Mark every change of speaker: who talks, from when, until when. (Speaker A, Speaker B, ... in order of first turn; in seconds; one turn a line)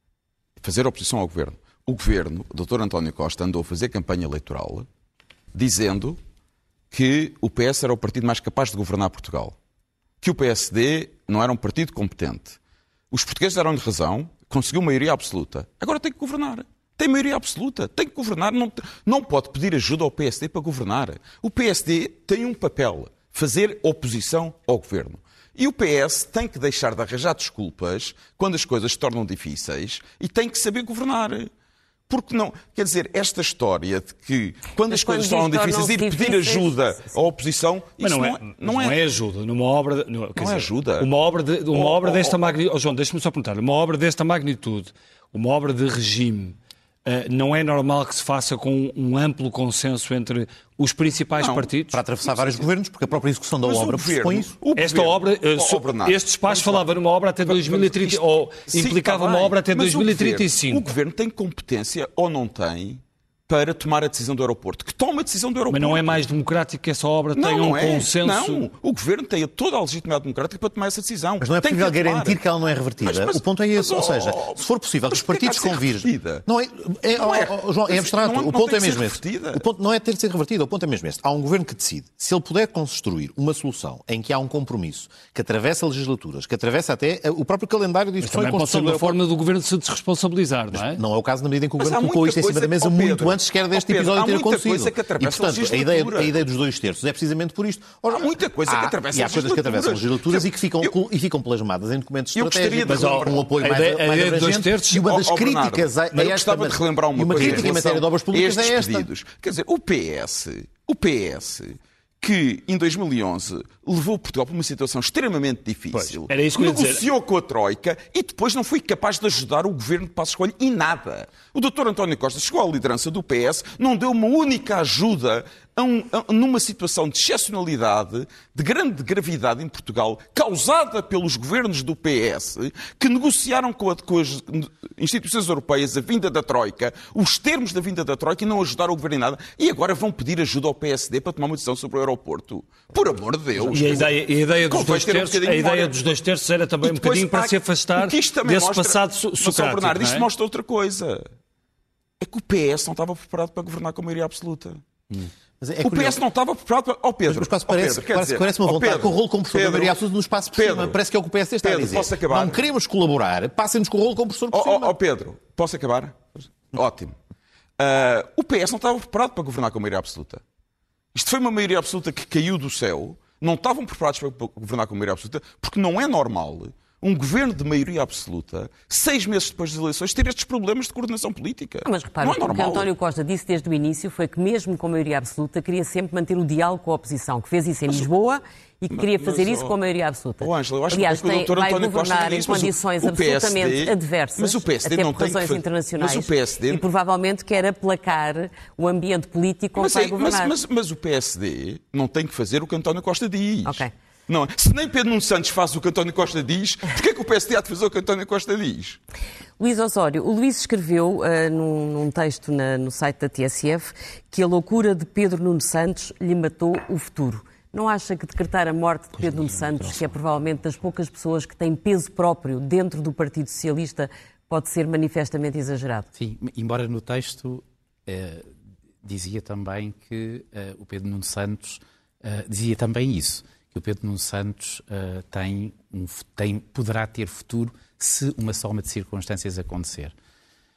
Speaker A: 0.6-4.9
Speaker A: 5.5-6.2
Speaker A: 6.9-9.5
Speaker A: 10.2-12.6
Speaker A: 13.1-31.5
Speaker A: 32.1-39.0
Speaker B: 34.9-37.1
Speaker C: 38.0-52.0
Speaker A: 40.4-41.1
Speaker A: 41.7-42.4
Speaker A: 51.4-51.7
Speaker D: 51.9-54.5
Speaker A: 52.2-52.7
Speaker A: 53.6-56.9
Speaker C: 54.8-60.9
Speaker A: 57.4-66.2
Speaker C: 65.7-68.7
Speaker A: 67.3-72.4
Speaker D: 71.4-89.2
Speaker A: 73.0-76.4
Speaker A: 77.1-79.6
Speaker C: 88.2-91.0
Speaker D: 90.7-109.1
Speaker A: 91.8-96.4
Speaker A: 98.1-100.9
Speaker A: 102.3-103.4
Speaker C: 102.8-105.0
Speaker A: 105.0-145.9
Speaker C: 115.9-117.0
Speaker C: 143.6-150.3
Speaker A: 146.8-151.2
Speaker A: 152.2-154.8
Speaker D: 155.6-156.2
Speaker A: 155.8-160.0
Speaker D: 157.2-164.9
Speaker A: 160.5-161.0
Speaker A: 161.6-162.6
Speaker A: 164.5-167.1
Speaker A: 167.8-170.4
Speaker A: 171.1-182.9
Speaker B: 181.8-200.5
Speaker A: 188.9-189.7
Speaker A: 190.4-196.8
Speaker A: 199.8-209.0
Speaker B: 203.6-203.9
Speaker B: 209.6-226.1
Speaker E: 226.2-228.5
Speaker E: 229.0-240.1